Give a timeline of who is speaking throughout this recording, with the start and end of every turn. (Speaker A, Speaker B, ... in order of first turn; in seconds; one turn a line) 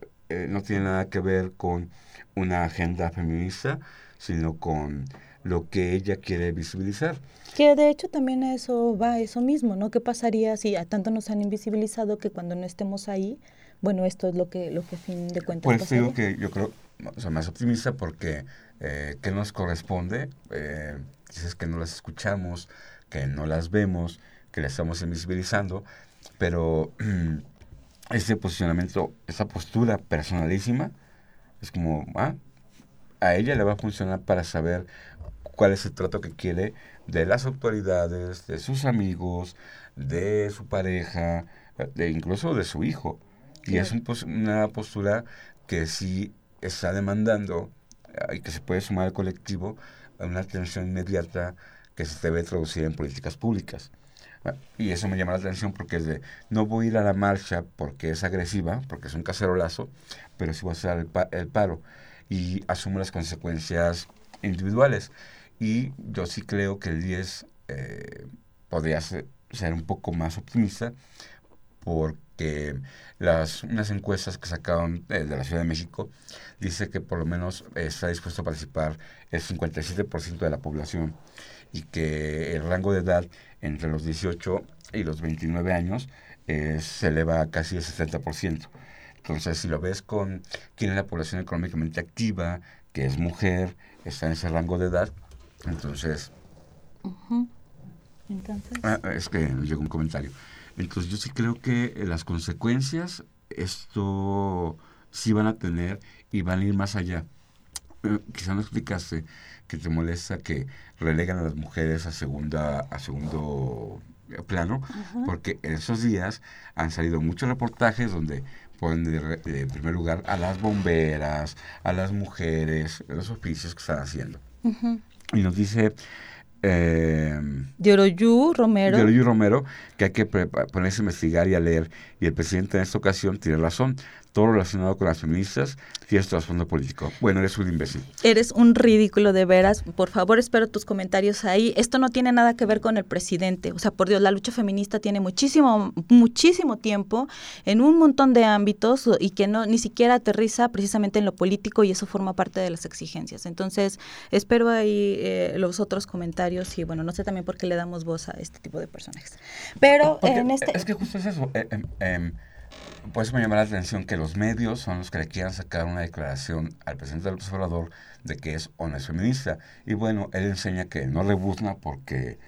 Speaker A: 0.3-7.2
Speaker B: 7.5-16.1
Speaker A: 15.6-25.9
Speaker A: 26.4-27.4
Speaker A: 28.1-30.9
Speaker A: 31.6-32.4
Speaker A: 33.2-34.9
Speaker A: 35.5-53.9
Speaker B: 43.7-44.0
Speaker A: 54.4-70.9
Speaker A: 71.8-81.2
Speaker A: 81.7-88.7
Speaker A: 89.2-95.1
Speaker A: 95.7-96.3
Speaker B: 97.0-97.5
Speaker B: 98.3-98.9
Speaker A: 98.8-107.3
Speaker A: 108.0-124.4
Speaker B: 114.9-115.3
Speaker B: 124.6-125.0
Speaker A: 125.3-126.0
Speaker A: 126.6-127.7
Speaker B: 127.8-129.1
Speaker A: 128.9-138.1
Speaker B: 138.2-160.8
Speaker A: 159.9-162.4
Speaker A: 163.1-172.4